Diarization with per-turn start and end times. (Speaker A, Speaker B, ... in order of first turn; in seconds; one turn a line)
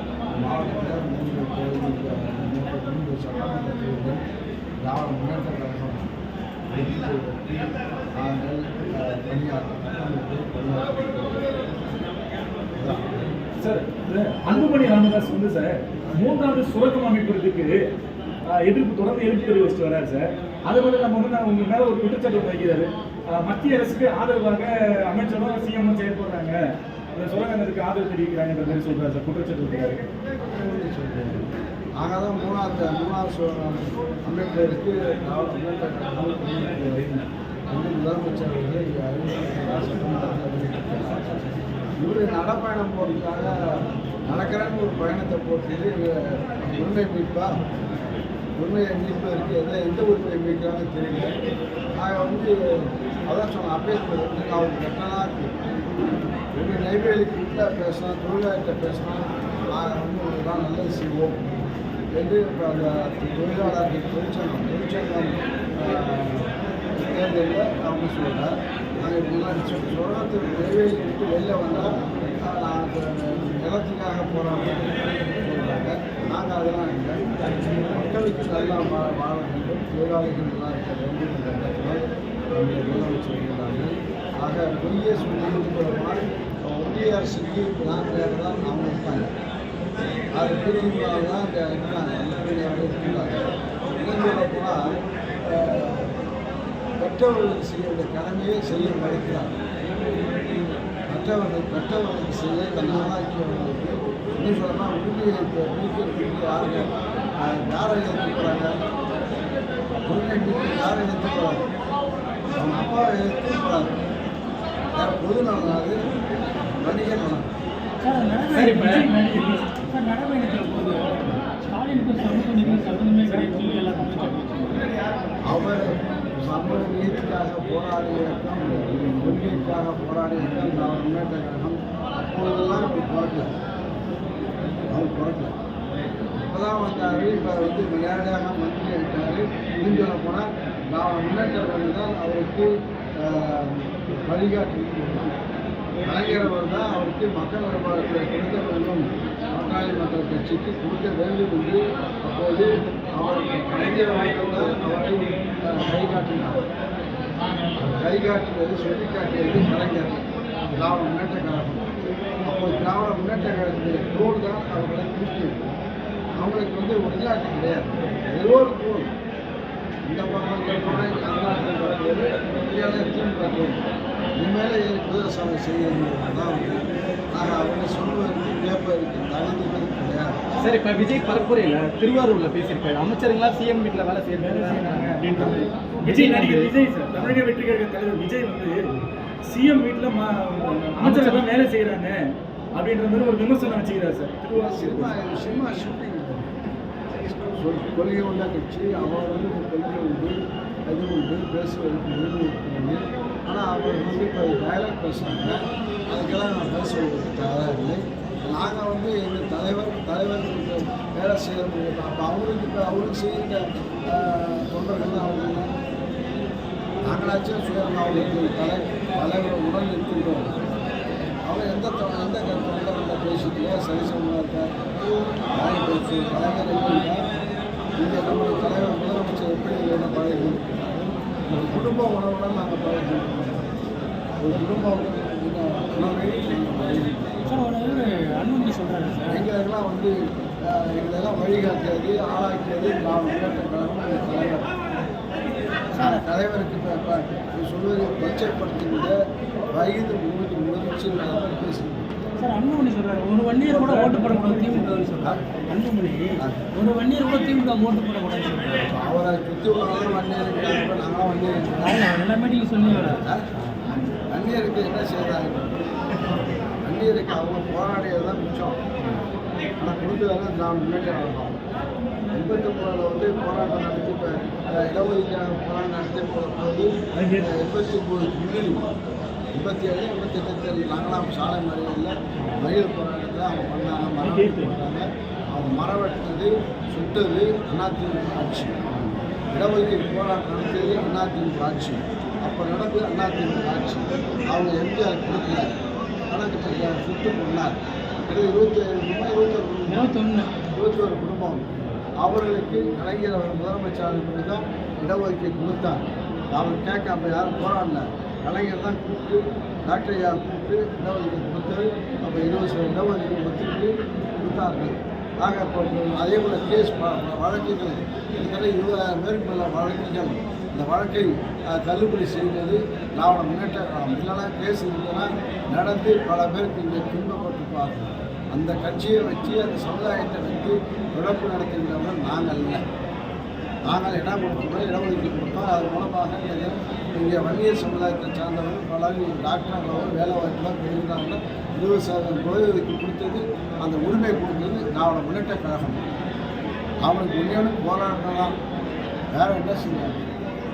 Speaker A: 0.3-4.2
Speaker A: 4.8-6.1
Speaker A: 6.7-7.5
Speaker A: 8.2-11.5
Speaker A: 12.8-13.1
Speaker B: 13.6-17.8
Speaker B: 18.5-26.6
Speaker B: 27.1-30.0
Speaker A: 30.4-31.5
Speaker A: 32.0-41.5
Speaker A: 42.0-43.5
Speaker A: 44.3-47.5
Speaker A: 48.6-51.3
Speaker A: 52.0-52.5
Speaker A: 53.3-55.5
Speaker A: 56.5-61.4
Speaker A: 62.1-82.0
Speaker A: 82.5-89.3
Speaker A: 90.3-94.8
Speaker A: 95.4-96.1
Speaker A: 97.0-99.5
Speaker A: 101.1-106.9
Speaker A: 107.4-108.8
Speaker A: 110.1-111.6
Speaker A: 112.6-113.8
Speaker A: 115.0-116.0
Speaker A: 116.8-117.5
Speaker C: 118.0-124.8
Speaker D: 118.6-119.1
Speaker B: 118.6-119.1
Speaker B: 123.3-123.5
Speaker A: 125.5-133.5
Speaker A: 134.9-135.6
Speaker A: 136.4-145.3
Speaker A: 146.0-156.6
Speaker A: 157.8-160.2
Speaker A: 160.7-161.9
Speaker A: 162.4-165.6
Speaker A: 166.4-169.1
Speaker A: 170.1-173.8
Speaker A: 174.4-180.3
Speaker D: 180.6-186.7
Speaker B: 184.4-188.9
Speaker B: 189.5-192.2
Speaker C: 191.1-191.4
Speaker B: 192.8-195.1
Speaker A: 194.5-196.5
Speaker A: 197.2-200.3
Speaker A: 200.9-215.7
Speaker A: 217.1-220.5
Speaker A: 221.5-224.7
Speaker A: 225.6-227.2
Speaker A: 228.0-233.7
Speaker A: 234.4-237.6
Speaker C: 237.4-239.4
Speaker A: 239.3-240.1
Speaker A: 240.7-244.7
Speaker C: 245.9-246.2
Speaker A: 246.0-249.2
Speaker A: 249.7-252.1
Speaker C: 252.4-258.9
Speaker A: 253.7-254.3
Speaker B: 254.1-254.9
Speaker A: 256.4-256.6
Speaker A: 258.9-262.1
Speaker C: 261.8-263.2
Speaker A: 262.8-263.4
Speaker A: 264.3-265.7
Speaker A: 266.8-268.8
Speaker A: 269.8-271.6
Speaker A: 272.3-276.9
Speaker B: 277.1-277.5
Speaker A: 277.4-278.8
Speaker A: 279.5-288.8
Speaker B: 284.2-284.7
Speaker A: 289.5-295.7
Speaker A: 296.3-300.1
Speaker C: 299.9-300.5
Speaker A: 300.7-301.7
Speaker A: 302.2-332.8
Speaker A: 333.9-346.0
Speaker A: 347.0-348.5
Speaker A: 349.3-350.2